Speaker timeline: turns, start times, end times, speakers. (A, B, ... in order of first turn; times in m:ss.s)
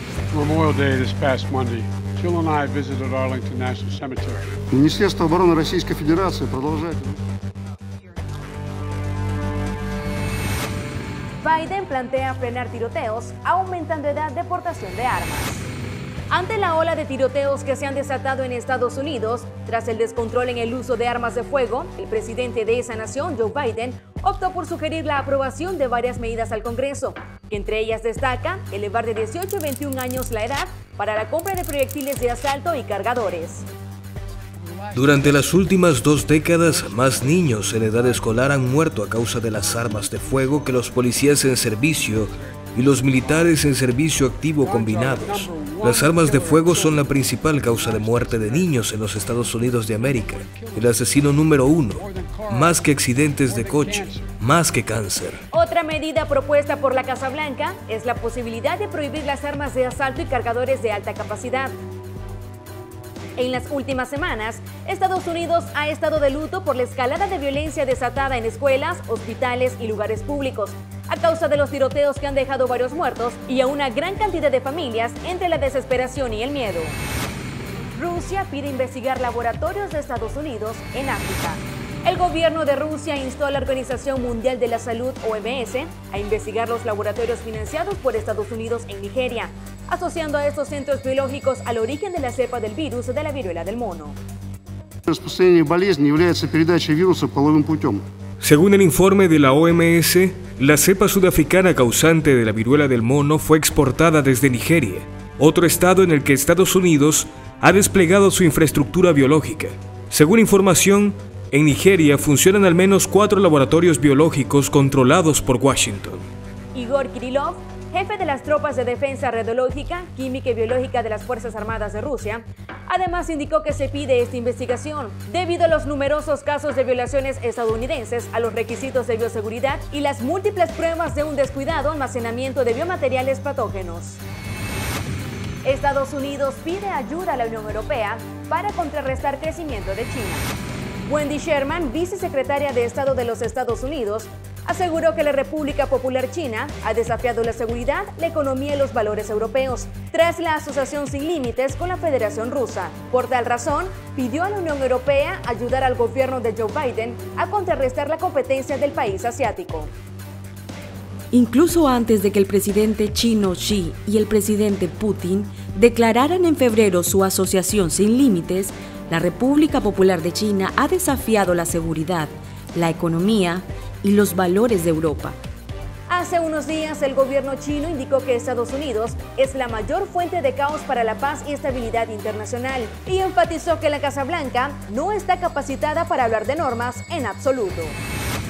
0:00.3-0:04.6 A
0:04.7-0:07.2 B
0:11.4-0:15.7 C
0:16.3-0:33.7 C
0:34.6-0:35.9 A
0:34.9-0:55.4 D
0:36.5-0:43.6 A
0:44.6-0:54.4 A
0:55.5-1:01.7 C
1:03.4-1:17.0 C
1:18.0-1:34.2 C
1:35.1-1:38.0 B
1:38.4-1:56.3 D
1:56.7-2:14.2 C
2:15.6-2:20.5 C
2:21.0-2:39.9 C
2:41.3-2:55.4 E
2:56.1-3:08.0 C